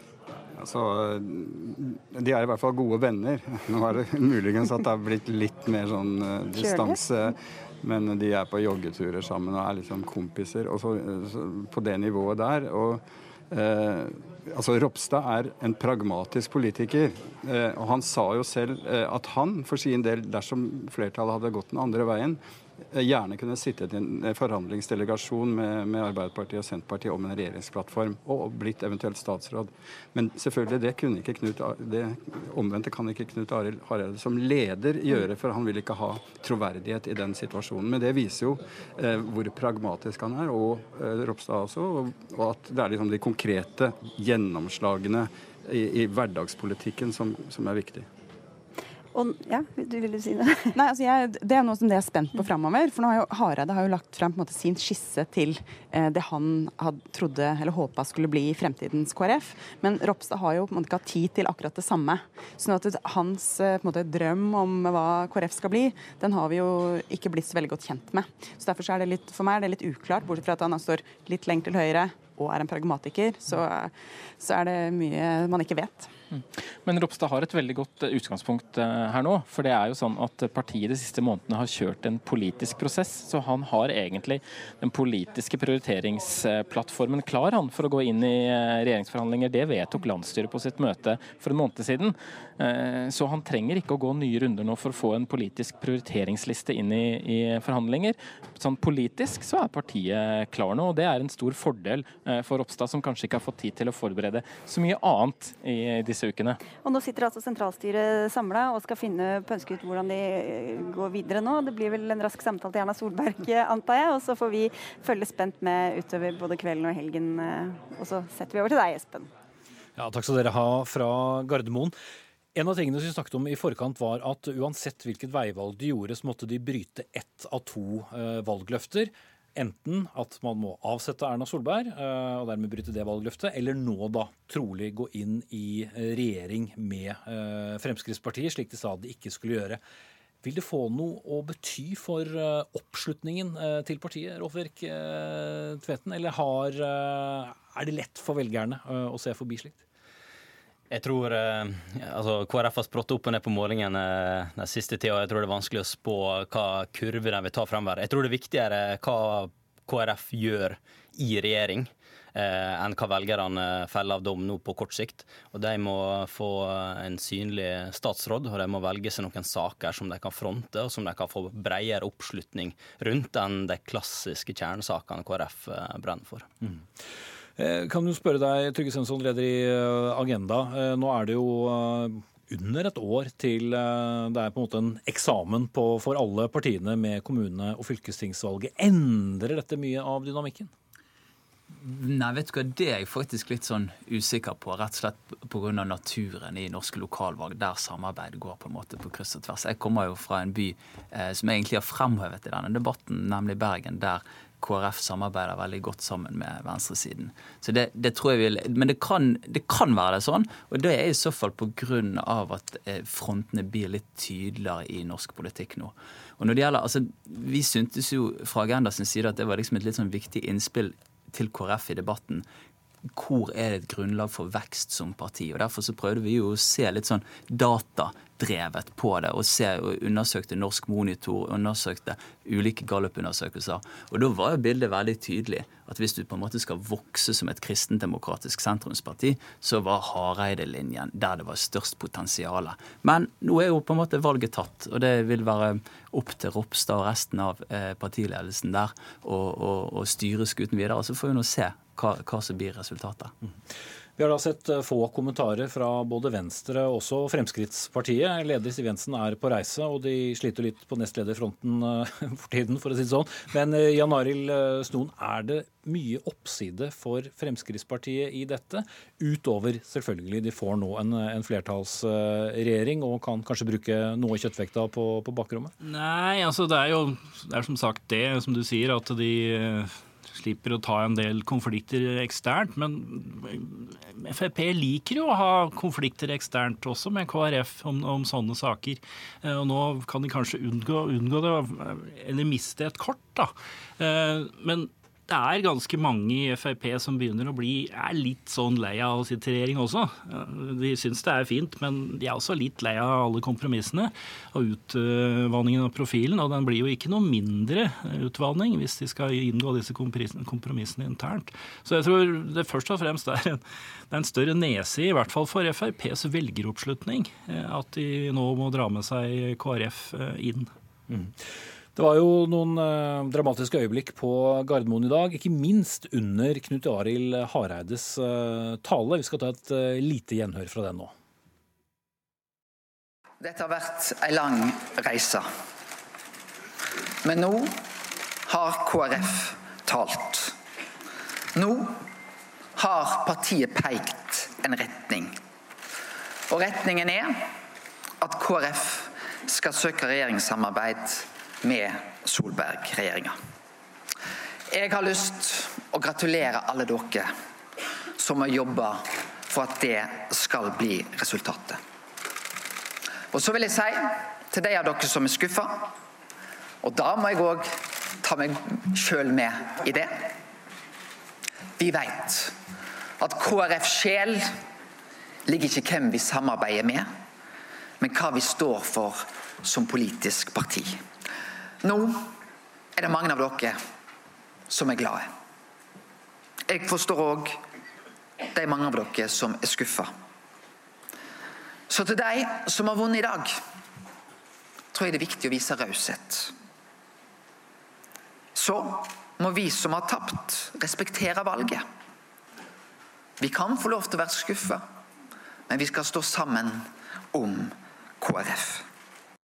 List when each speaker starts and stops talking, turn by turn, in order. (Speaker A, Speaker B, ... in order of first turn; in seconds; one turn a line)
Speaker A: 0.6-22.4
Speaker B: 6.5-7.0
Speaker A: 22.9-48.1
Speaker B: 49.1-50.7
Speaker C: 50.8-76.1
Speaker D: 76.3-106.6
Speaker B: 106.8-119.3
Speaker E: 120.0-121.9
Speaker E: 122.5-139.8
Speaker E: 140.4-149.8
Speaker F: 150.9-176.5
Speaker E: 177.6-190.7
Speaker G: 191.8-222.4
Speaker G: 223.1-253.3
Speaker E: 254.2-275.7
Speaker H: 275.8-320.7
Speaker E: 322.0-331.1
Speaker I: 333.4-335.5
Speaker I: 337.2-337.9
Speaker I: 338.4-340.6
Speaker I: 341.6-342.1
Speaker I: 342.8-345.4
Speaker I: 346.5-347.6
Speaker I: 348.2-353.4
Speaker I: 354.7-357.3
Speaker I: 358.2-361.8
Speaker I: 363.3-365.9
Speaker I: 366.8-370.4
Speaker I: 371.8-372.6
Speaker I: 373.2-374.6
Speaker I: 375.5-377.1
Speaker I: 378.0-381.1
Speaker I: 381.8-382.4
Speaker I: 383.0-383.8
Speaker I: 384.7-385.3
Speaker I: 386.7-387.6
Speaker I: 388.5-390.1
Speaker I: 391.9-393.6
Speaker I: 394.9-396.6
Speaker I: 398.6-401.9
Speaker I: 403.4-404.8
Speaker I: 405.7-408.9